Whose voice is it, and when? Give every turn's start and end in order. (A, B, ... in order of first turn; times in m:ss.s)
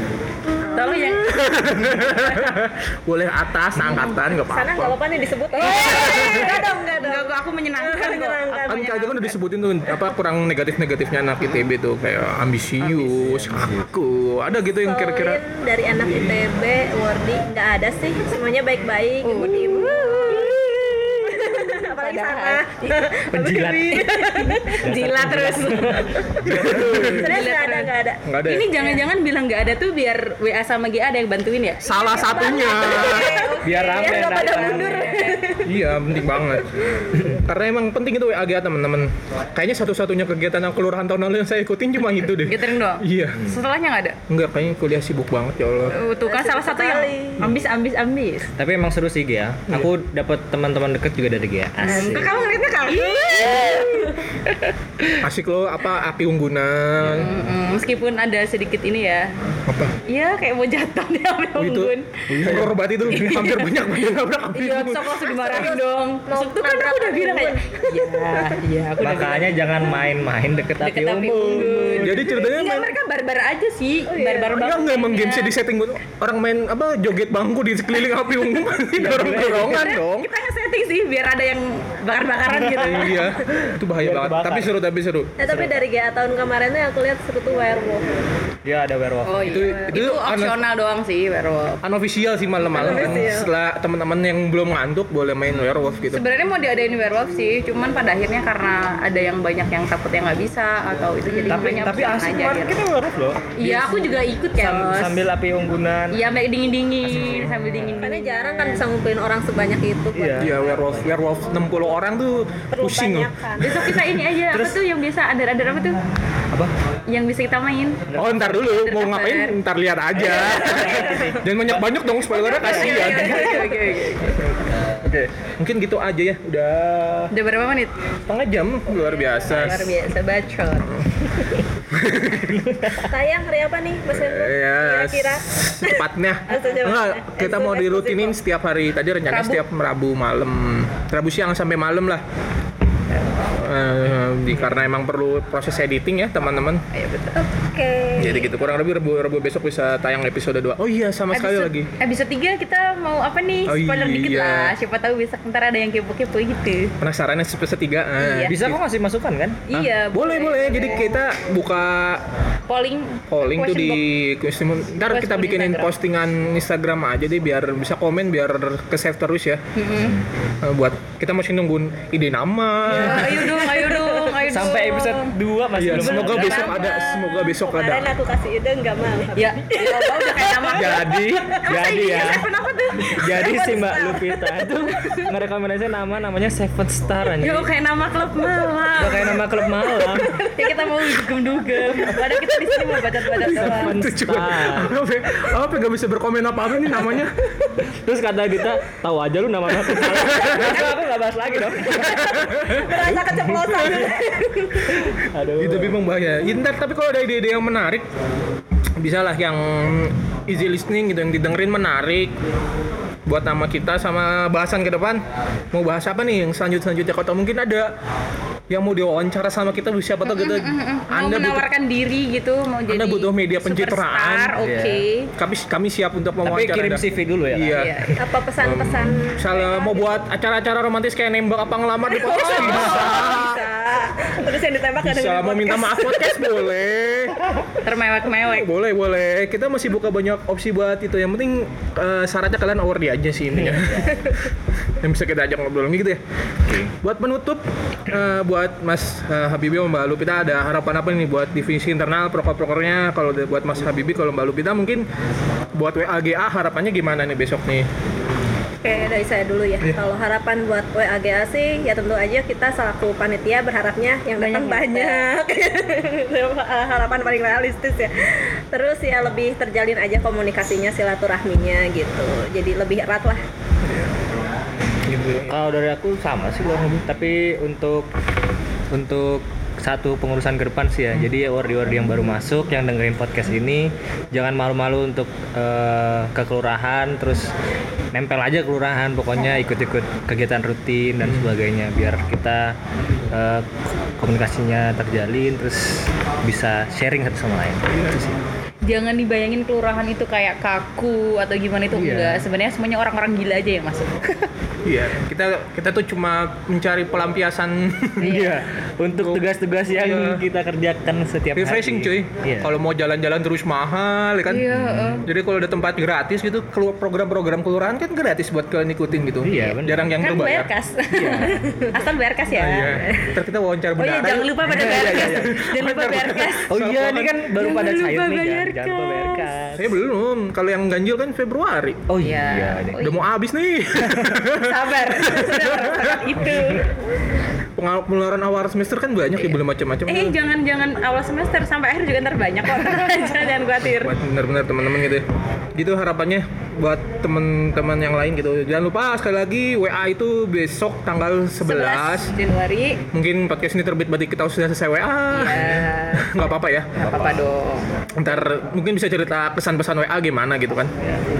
0:00.6-0:01.2 A
0:00.7-0:01.3 B
0:01.2-0:05.0 C
0:03.9-0:09.2 A
0:05.5-0:09.3 B
0:06.0-0:06.4 C
0:08.7-0:15.4 C
0:12.8-0:13.1 B
0:13.2-0:13.8 D
0:14.8-0:24.8 A
0:19.2-0:23.2 B
0:23.3-0:24.1 D
0:23.9-0:27.9 B
0:24.8-0:27.2 D
0:26.4-0:27.3 C
0:26.4-0:28.2 A
0:28.2-0:28.7 C
0:28.4-0:35.5 B
0:28.8-0:29.1 A
0:31.8-0:33.5 C
0:31.9-0:35.7 A
0:33.6-0:35.2 D
0:35.6-0:43.4 C
0:42.4-0:44.2 B
0:43.4-0:43.6 D
0:44.3-0:46.0 C
0:45.9-0:48.5 B
0:46.2-0:47.6 A
0:48.6-0:52.4 D
0:51.8-0:54.7 B
0:51.8-0:54.2 A
0:55.2-0:57.3 C
0:57.0-0:57.3 D
0:57.2-0:59.3 B
0:59.7-1:00.0 C
1:00.1-1:02.2 B
1:01.6-1:05.3 C
1:02.3-1:02.8 D
1:03.1-1:03.7 B
1:04.5-1:10.0 B
1:05.4-1:08.6 A
1:09.0-1:12.2 D
1:10.8-1:15.6 B
1:11.3-1:12.2 A
1:12.0-1:13.0 C
1:14.1-1:14.6 A
1:14.5-1:20.3 C
1:19.0-1:19.8 D
1:19.5-1:23.3 B
1:22.5-1:23.0 D
1:22.8-1:25.3 C
1:24.0-1:24.7 D
1:25.4-1:28.0 A
1:25.5-1:25.8 D
1:28.6-1:29.5 D
1:29.2-1:31.8 B
1:29.4-1:30.6 C
1:31.8-1:36.2 C
1:32.7-1:33.5 A
1:32.8-1:33.3 D
1:36.0-1:42.8 B
1:41.3-1:42.0 A
1:41.5-1:46.2 D
1:43.6-1:45.2 B
1:46.1-1:48.9 B
1:47.1-1:47.8 C
1:47.1-1:47.6 D
1:48.0-1:50.5 A
1:50.1-1:51.1 D
1:50.4-1:54.0 C
1:52.7-1:53.9 A
1:53.6-1:56.0 B
1:54.5-1:54.8 D
1:57.1-1:59.6 B
1:58.1-1:58.5 D
1:58.1-2:03.6 C
2:00.2-2:01.8 D
2:00.2-2:01.3 A
2:02.4-2:04.6 B
2:02.5-2:04.0 A
2:05.0-2:07.3 C
2:07.3-2:07.9 B
2:08.3-2:10.0 C
2:09.0-2:11.0 B
2:11.9-2:12.9 C
2:12.6-2:13.1 D
2:13.0-2:18.4 A
2:14.1-2:22.2 C
2:19.3-2:19.6 B
2:23.5-2:26.8 C
2:26.9-2:27.5 B
2:27.6-2:28.5 A
2:28.2-2:31.9 C
2:31.3-2:37.0 B
2:33.7-2:34.8 C
2:37.0-2:38.8 C
2:38.2-2:38.6 B
2:38.5-2:39.7 D
2:39.7-2:41.1 B
2:39.7-2:42.2 C
2:42.7-2:44.0 B
2:43.3-2:49.6 C
2:45.1-2:45.9 B
2:49.8-2:50.2 B
2:50.0-2:50.2 D
2:50.6-2:53.5 C
2:52.9-2:55.3 B
2:53.4-2:54.4 A
2:54.4-2:56.8 D
2:55.8-2:58.1 C
2:55.9-2:57.3 B
2:56.8-3:02.3 A
2:59.4-3:03.4 B
3:00.8-3:01.5 C
3:00.8-3:02.5 D
3:03.0-3:07.7 D
3:03.0-3:05.1 A
3:07.4-3:14.0 B
3:09.0-3:10.4 D
3:12.4-3:13.0 A
3:13.5-3:14.9 D
3:13.6-3:17.4 C
3:17.8-3:23.8 D
3:20.1-3:20.8 C
3:21.9-3:25.1 A
3:22.1-3:24.1 C
3:25.1-3:28.1 C
3:25.1-3:26.0 D
3:29.0-3:32.3 C
3:33.3-3:37.9 C
3:38.7-3:41.6 C
3:40.3-3:45.3 B
3:42.9-3:44.6 C
3:44.6-3:45.0 D
3:45.4-3:48.0 C
3:46.4-3:47.8 D
3:47.7-3:48.1 B
3:48.2-3:50.2 A
3:48.6-3:53.6 C
3:52.1-3:56.6 A
3:52.2-3:53.6 B
3:55.0-3:57.4 C
3:57.8-3:58.7 B
3:58.5-4:06.2 C
4:03.5-4:04.1 D
4:06.7-4:06.9 D
4:07.0-4:15.1 C
4:15.8-4:17.9 C
4:18.8-4:33.4 A
4:24.4-4:25.3 B
4:35.0-4:35.5 C
4:35.5-4:38.1 D
4:38.9-4:47.5 D
4:48.1-4:52.8 D
4:51.2-4:51.5 C
4:53.3-4:58.4 D
4:57.9-4:58.2 C
4:58.8-5:04.5 B
5:01.9-5:02.4 D
5:04.8-5:08.4 C
5:08.2-5:08.6 B
5:08.2-5:12.7 D
5:09.2-5:10.4 C
5:11.6-5:20.7 C
5:14.5-5:15.3 B
5:14.7-5:15.2 D
5:19.4-5:20.2 D
5:20.2-5:23.0 B
5:21.1-5:21.8 D
5:22.5-5:27.4 C
5:24.0-5:26.7 B
5:24.7-5:25.5 D
5:26.7-5:30.0 D
5:27.6-5:29.5 B
5:29.8-5:32.0 C
5:32.1-5:33.0 D
5:32.2-5:33.2 B
5:33.0-5:36.7 C
5:34.6-5:37.0 B
5:37.8-5:40.4 C
5:40.1-5:44.1 B
5:43.8-5:45.2 C
5:45.8-5:52.3 C
5:51.6-5:53.0 B
5:53.1-5:57.0 C
5:55.3-5:56.4 B
5:57.0-5:57.4 D
5:57.1-5:57.8 B
5:58.2-6:00.9 C